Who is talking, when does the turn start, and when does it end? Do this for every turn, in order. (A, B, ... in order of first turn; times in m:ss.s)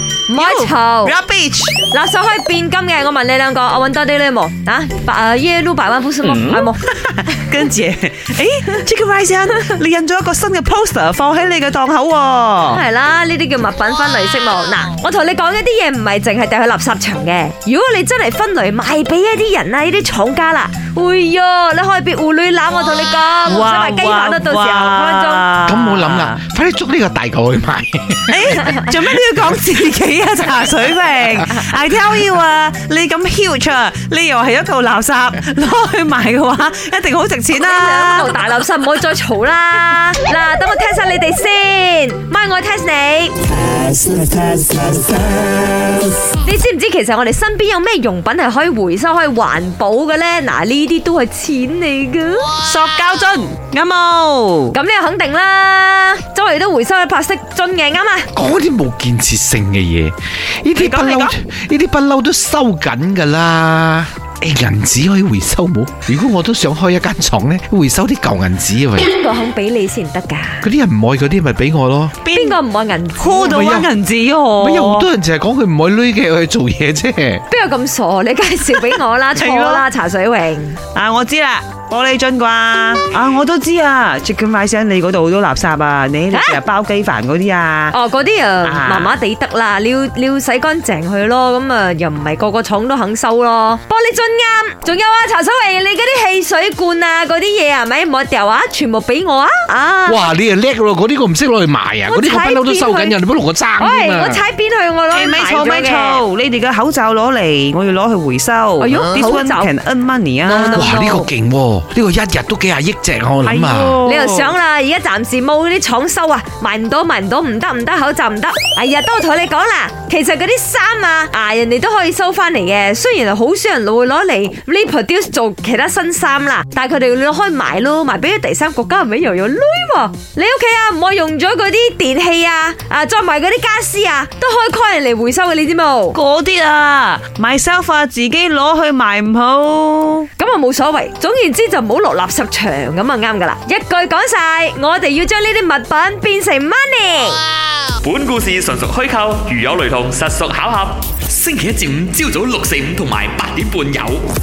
0:00.3-0:01.2 A
0:00.3-0:01.7 B
0:01.9-0:06.8 A
0:06.2-0:12.8 B
0:12.7-0:25.5 A
0:23.4-0:26.4 B
0:25.6-0:28.4 C
0:28.3-0:38.3 B
0:37.6-0:43.4 A
0:43.7-0:45.7 B
0:46.4-0:52.5 A
0:52.6-0:54.7 B
0:54.7-0:58.3 A
0:58.3-1:09.1 C
1:00.8-1:01.3 B
1:08.9-1:10.7 A
1:10.6-1:12.2 C
1:12.2-1:12.6 B
1:12.3-1:13.6 A
1:13.2-1:15.1 B
1:13.5-1:13.9 C
1:14.6-1:17.4 C
1:17.5-1:20.8 A
1:18.9-1:19.8 B
1:20.9-1:27.9 B
1:26.3-1:26.6 A
1:27.9-1:40.3 A
1:28.6-1:29.2 B
1:40.1-1:44.4 C
1:42.1-1:43.2 A
1:43.8-1:46.2 A
1:45.1-1:50.9 B
1:48.8-1:49.7 A
1:50.4-1:51.3 A
1:50.7-1:54.0 C
1:53.4-1:54.5 B
1:54.0-2:16.2 A
2:16.1-2:20.2 B
2:20.4-2:27.4 A
2:28.0-2:34.2 D